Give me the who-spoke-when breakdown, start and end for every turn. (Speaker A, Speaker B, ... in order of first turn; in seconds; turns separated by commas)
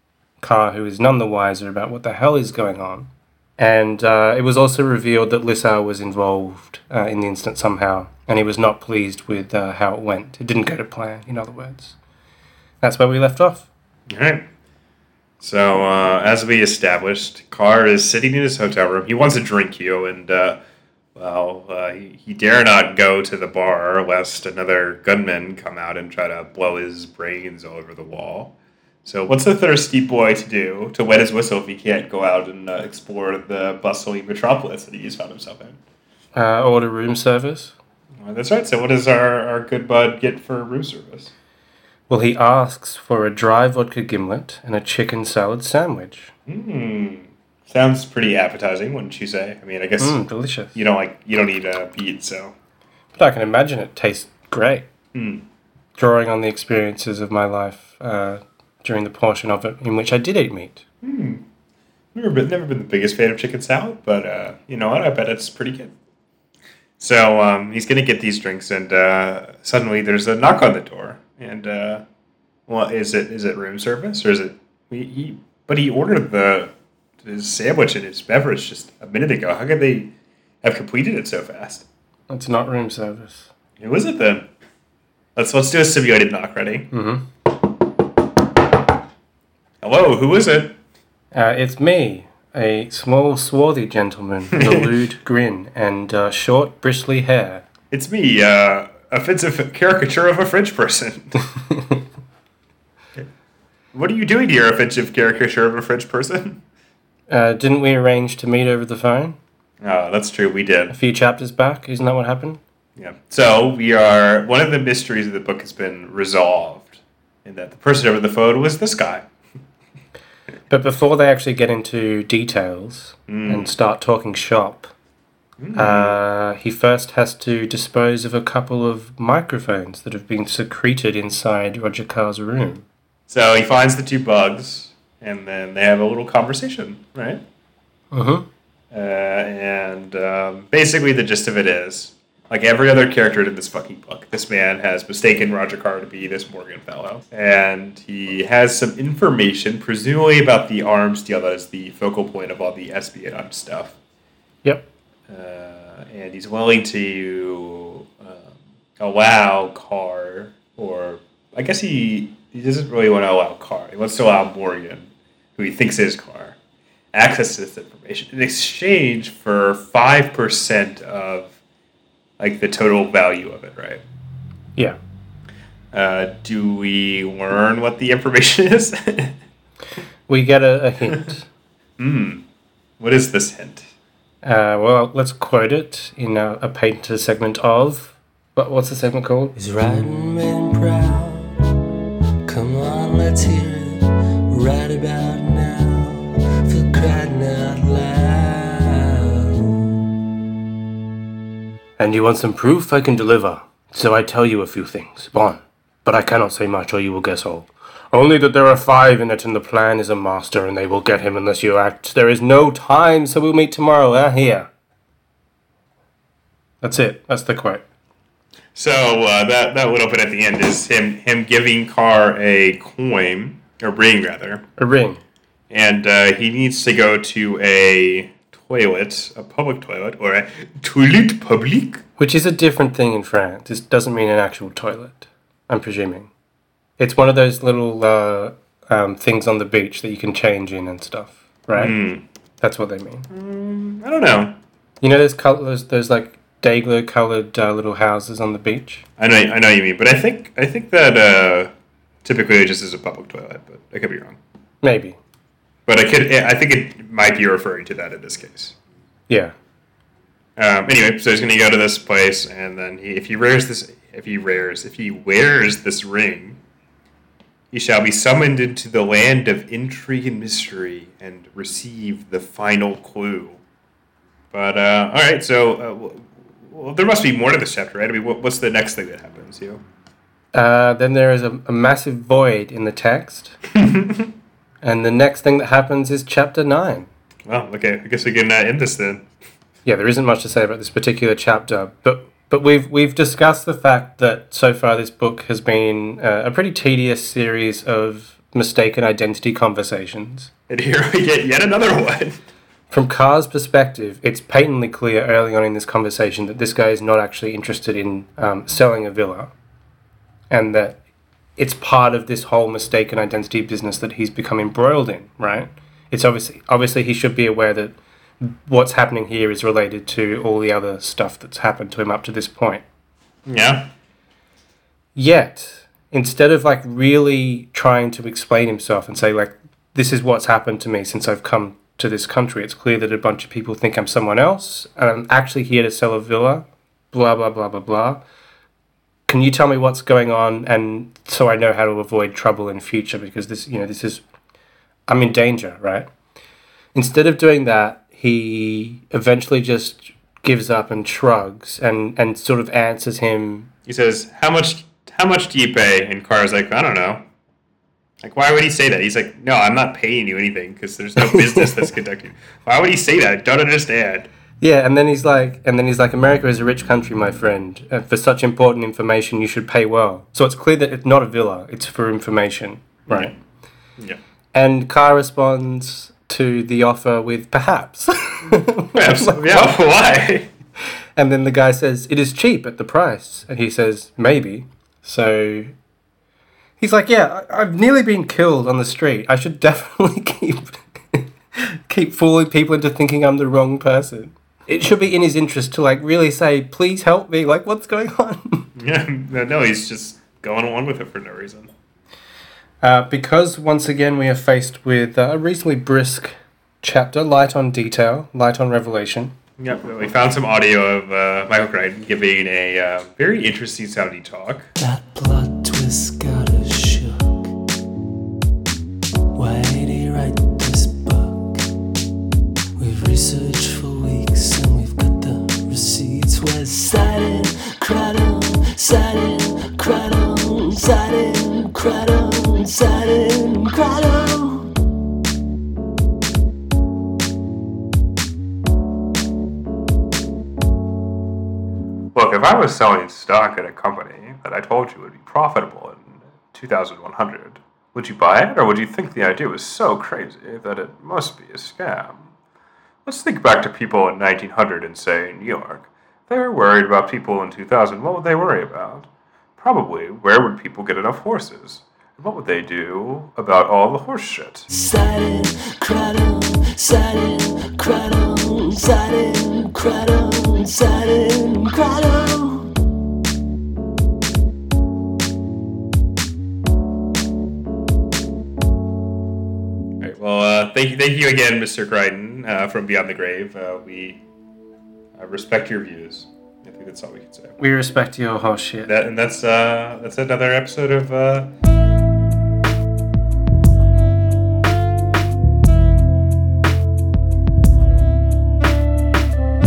Speaker A: 0.4-12.0, Speaker A: 12.8-13.7, Speaker B: 14.1-14.4, Speaker B: 15.4-20.6, Speaker B: 21.1-28.5, Speaker B: 29.0-35.8, Speaker A: 36.3-37.7, Speaker B: 38.2-41.3, Speaker A: 42.1-46.3, Speaker B: 46.5-50.2, Speaker A: 50.0-50.8, Speaker B: 50.7-52.5, Speaker A: 53.1-54.9, Speaker B: 55.1-55.4, Speaker A: 56.0-60.8, Speaker B: 61.0-61.4, Speaker B: 62.1-65.9, Speaker B: 67.0-72.0, Speaker B: 72.7-80.1, Speaker B: 80.6-81.9, Speaker A: 82.3-83.5, Speaker B: 83.8-84.5, Speaker B: 85.3-86.9, Speaker A: 86.9-87.3, Speaker B: 89.8-90.8, Speaker A: 91.3-97.6, Speaker B: 94.5-94.9, Speaker B: 97.9-101.4, Speaker B: 103.9-106.6, Speaker A: 107.3-109.4, Speaker B: 109.8-111.0, Speaker A: 110.9-112.6, Speaker B: 113.0-119.3, Speaker A: 120.7-124.9, Speaker B: 123.3-123.7, Speaker B: 125.6-126.2, Speaker A: 125.7-132.8, Speaker B: 133.3-137.4, Speaker A: 138.1-138.5, Speaker B: 138.9-154.0, Speaker B: 155.3-166.6, Speaker B: 167.1-171.6, Speaker B: 172.4-174.0, Speaker B: 175.9-179.4, Speaker A: 180.3-181.5, Speaker B: 182.0-182.4, Speaker B: 183.0-183.8, Speaker A: 184.4-189.6, Speaker C: 189.6-191.8, Speaker C: 192.4-200.0, Speaker A: 202.0-214.7, Speaker A: 216.8-217.8, Speaker B: 218.7-224.6, Speaker A: 224.8-225.2, Speaker B: 225.7-232.0, Speaker A: 232.2-236.3, Speaker A: 237.0-242.0, Speaker B: 241.7-242.2, Speaker A: 242.6-243.3, Speaker B: 243.3-244.6, Speaker A: 245.0-249.0, Speaker B: 249.2-251.7, Speaker B: 252.2-254.4, Speaker A: 254.8-255.2, Speaker B: 255.9-258.8, Speaker A: 259.3-259.5, Speaker B: 260.6-266.6, Speaker B: 267.7-273.6, Speaker B: 274.5-279.8, Speaker A: 280.5-283.6, Speaker B: 283.8-284.3, Speaker A: 284.8-287.1, Speaker B: 287.5-289.2, Speaker A: 289.8-300.5, Speaker B: 300.7-302.4, Speaker A: 302.9-309.5, Speaker A: 310.5-311.0, Speaker A: 311.6-322.8, Speaker B: 323.5-323.9, Speaker A: 325.1-338.2, Speaker A: 339.3-344.2, Speaker A: 345.1-346.1, Speaker A: 346.9-353.7, Speaker B: 353.9-357.2, Speaker B: 358.2-364.3, Speaker A: 361.2-361.7, Speaker A: 364.6-373.3, Speaker B: 373.1-373.3, Speaker A: 374.5-379.7, Speaker B: 378.9-380.5, Speaker A: 381.2-385.7, Speaker A: 386.8-398.7, Speaker B: 398.8-401.7, Speaker A: 402.8-409.3, Speaker B: 409.6-414.7, Speaker C: 414.8-417.5, Speaker C: 419.3-421.6, Speaker C: 422.8-434.7, Speaker B: 442.1-452.3, Speaker B: 453.1-464.7, Speaker C: 464.7-472.7, Speaker B: 480.0-484.2, Speaker B: 485.1-487.6, Speaker A: 487.6-488.9, Speaker B: 488.9-491.5